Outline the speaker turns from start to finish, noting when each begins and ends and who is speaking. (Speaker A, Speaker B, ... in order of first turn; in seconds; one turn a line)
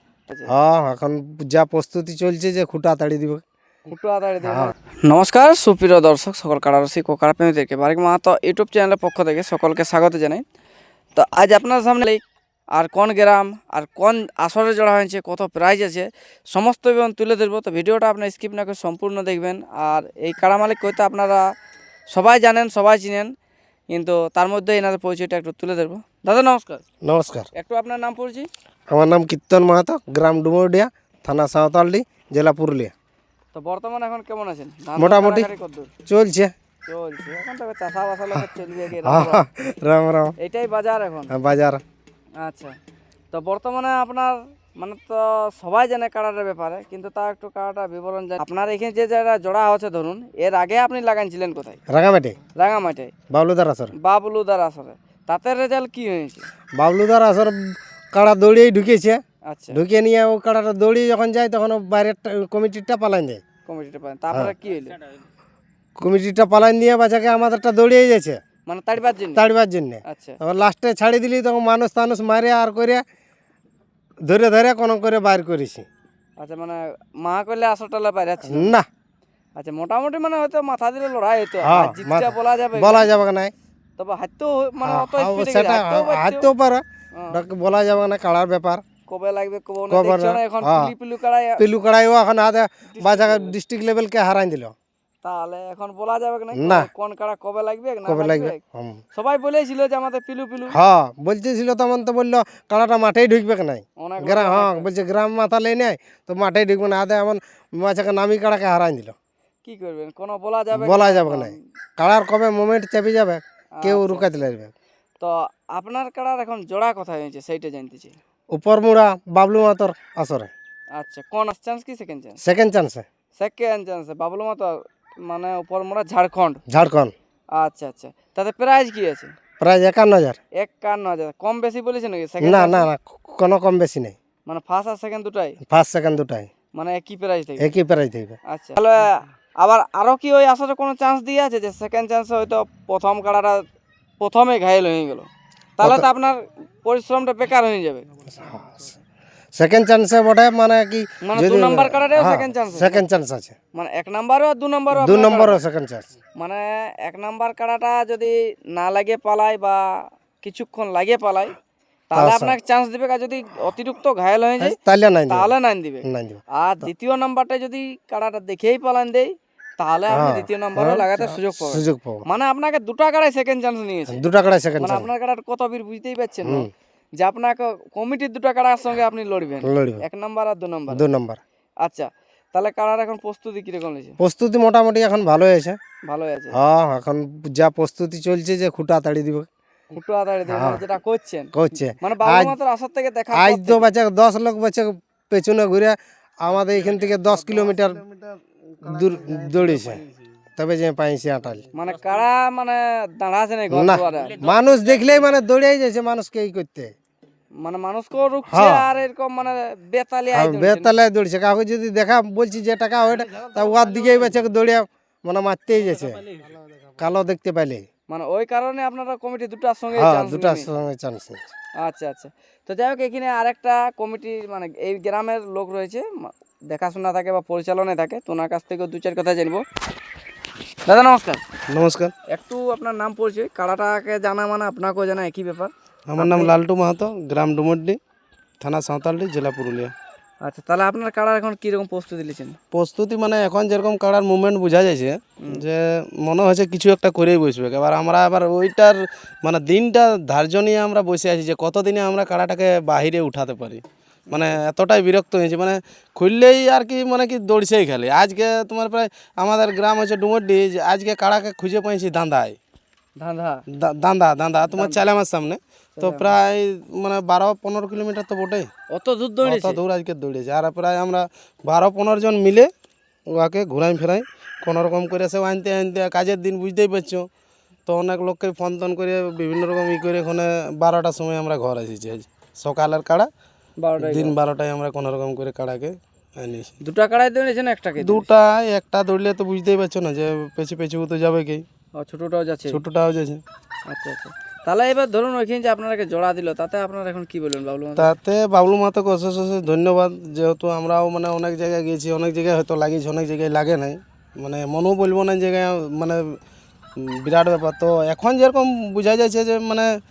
Speaker A: 0.5-3.4
Speaker B: 3.9-10.4
Speaker A: 4.4-4.7
Speaker B: 11.2-12.2
Speaker B: 12.8-21.4
Speaker B: 22.1-23.3
Speaker B: 23.9-26.8
Speaker A: 27.0-27.5
Speaker B: 27.6-28.5
Speaker A: 28.9-32.9
Speaker B: 33.5-35.9
Speaker A: 35.0-35.5
Speaker A: 36.0-36.5
Speaker B: 36.9-39.4
Speaker A: 39.0-40.3
Speaker B: 40.4-41.3
Speaker A: 41.3-41.8
Speaker B: 42.4-42.8
Speaker B: 43.3-51.8
Speaker A: 51.9-52.4
Speaker B: 52.5-53.1
Speaker A: 53.3-53.9
Speaker B: 54.0-56.5
Speaker A: 56.8-57.6
Speaker A: 58.1-59.2
Speaker B: 59.5-59.8
Speaker A: 59.7-63.4
Speaker B: 63.6-65.0
Speaker A: 66.0-68.4
Speaker B: 68.7-69.4
Speaker A: 69.3-73.0
Speaker B: 70.1-70.4
Speaker A: 74.3-75.9
Speaker B: 76.4-78.7
Speaker A: 78.4-78.8
Speaker B: 79.5-83.1
Speaker A: 81.6-83.5
Speaker B: 84.0-86.5
Speaker A: 84.8-88.8
Speaker B: 89.1-91.6
Speaker A: 89.9-90.9
Speaker A: 91.6-94.7
Speaker B: 92.9-93.5
Speaker B: 95.2-98.6
Speaker A: 96.5-96.9
Speaker A: 98.0-99.0
Speaker B: 99.1-100.8
Speaker A: 100.7-109.1
Speaker B: 104.0-104.9
Speaker B: 109.6-111.5
Speaker A: 110.7-114.7
Speaker B: 113.8-114.3
Speaker B: 115.2-118.2
Speaker A: 118.5-120.5
Speaker B: 121.0-122.4
Speaker A: 122.4-123.0
Speaker B: 123.4-126.6
Speaker A: 126.7-127.1
Speaker B: 127.6-129.3
Speaker A: 129.6-130.4
Speaker B: 130.6-132.9
Speaker A: 132.4-134.2
Speaker B: 134.4-135.6
Speaker A: 135.6-136.5
Speaker B: 136.8-137.7
Speaker A: 137.6-138.4
Speaker B: 138.5-143.6
Speaker B: 144.2-148.0
Speaker A: 145.8-146.1
Speaker A: 148.3-148.9
Speaker A: 149.6-153.5
Speaker B: 151.2-153.0
Speaker B: 153.7-155.6
Speaker A: 154.9-156.1
Speaker B: 156.4-159.8
Speaker B: 160.4-161.5
Speaker B: 162.1-164.8
Speaker A: 162.1-162.6
Speaker A: 164.6-165.5
Speaker B: 165.3-166.0
Speaker A: 166.0-166.9
Speaker B: 166.6-174.2
Speaker A: 170.1-172.2
Speaker A: 174.1-175.1
Speaker B: 174.8-176.7
Speaker B: 177.2-181.0
Speaker A: 179.6-180.0
Speaker A: 180.9-181.4
Speaker B: 181.8-184.1
Speaker A: 184.2-185.8
Speaker B: 186.1-186.6
Speaker A: 186.5-189.5
Speaker B: 189.9-193.9
Speaker A: 190.5-190.8
Speaker A: 191.5-192.5
Speaker A: 193.3-198.0
Speaker C: 196.6-200.1
Speaker A: 198.8-200.0
Speaker A: 200.6-201.7
Speaker B: 201.7-204.4
Speaker A: 203.7-206.9
Speaker C: 204.2-204.7
Speaker B: 207.6-210.9
Speaker A: 208.5-208.9
Speaker A: 210.3-216.2
Speaker C: 213.1-214.4
Speaker C: 216.0-216.8
Speaker A: 217.0-217.8
Speaker B: 218.1-220.7
Speaker A: 219.9-221.4
Speaker B: 221.8-229.6
Speaker B: 230.8-231.4
Speaker C: 231.7-232.1
Speaker B: 232.3-236.5
Speaker C: 236.1-238.0
Speaker C: 238.6-239.9
Speaker B: 240.4-242.6
Speaker C: 242.7-262.6
Speaker B: 254.3-254.6
Speaker B: 263.2-263.6
Speaker C: 263.8-268.7
Speaker B: 264.7-265.0
Speaker B: 266.0-266.3
Speaker B: 268.9-269.8
Speaker C: 269.4-272.7
Speaker C: 273.3-277.2
Speaker C: 277.9-283.3
Speaker B: 283.8-284.3
Speaker C: 284.0-286.7
Speaker B: 286.8-288.3
Speaker C: 288.0-291.6
Speaker B: 291.9-292.8
Speaker C: 292.7-293.4
Speaker B: 293.9-298.1
Speaker C: 298.0-306.3
Speaker C: 307.0-309.9